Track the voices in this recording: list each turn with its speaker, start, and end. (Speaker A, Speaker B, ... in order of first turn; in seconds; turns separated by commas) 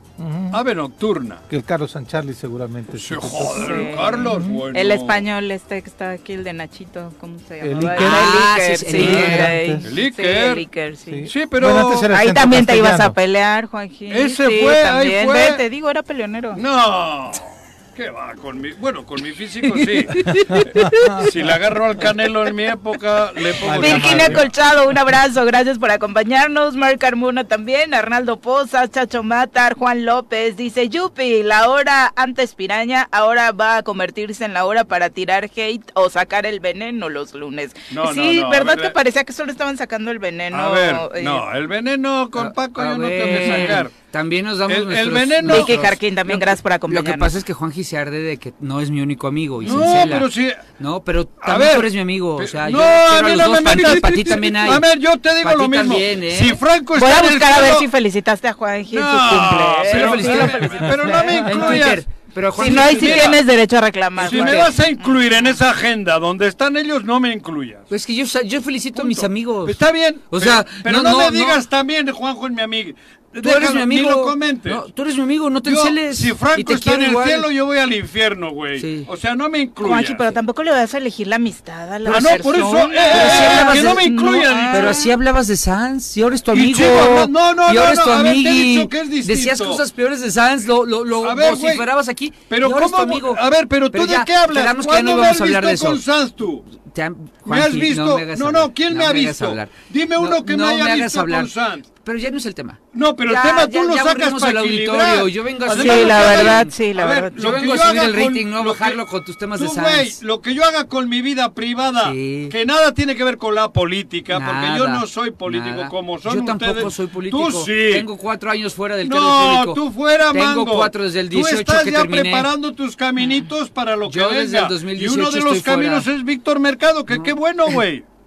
Speaker A: 0.2-0.6, Speaker B: 0.5-1.4, Speaker A: 1.5-4.6, Speaker B: 3.0-5.2, Speaker C: 3.5-11.3, Speaker A: 7.6-9.9, Speaker D: 7.9-9.5, Speaker B: 9.0-10.7, Speaker A: 11.1-13.2, Speaker B: 11.3-12.1, Speaker C: 12.1-16.6, Speaker B: 14.1-15.6, Speaker B: 16.5-24.5, Speaker A: 20.5-21.3, Speaker A: 23.6-24.5, Speaker C: 23.8-41.4, Speaker B: 37.9-39.0, Speaker B: 40.5-43.9, Speaker D: 42.4-56.6, Speaker C: 43.3-43.8, Speaker B: 44.7-45.7, Speaker C: 45.4-47.3, Speaker B: 49.6-50.6, Speaker B: 51.4-57.9, Speaker C: 56.9-61.4, Speaker B: 58.9-63.4, Speaker D: 59.9-63.4, Speaker C: 62.5-65.5, Speaker B: 64.2-67.9, Speaker D: 64.2-64.6, Speaker D: 67.9-71.6, Speaker B: 68.9-74.8, Speaker D: 73.4-77.5, Speaker B: 75.6-80.3, Speaker D: 78.8-79.1, Speaker C: 79.8-85.1, Speaker B: 82.0-85.1, Speaker D: 83.1-84.0, Speaker D: 84.7-96.0, Speaker B: 86.5-89.8, Speaker B: 91.2-91.9, Speaker B: 92.5-96.7, Speaker D: 96.8-106.7, Speaker B: 97.5-101.8, Speaker B: 102.9-109.0, Speaker C: 105.8-107.4, Speaker D: 107.3-110.2, Speaker B: 109.5-118.1, Speaker D: 112.0-112.5, Speaker D: 114.3-122.5, Speaker B: 119.0-128.0, Speaker D: 124.0-126.1, Speaker D: 127.1-127.8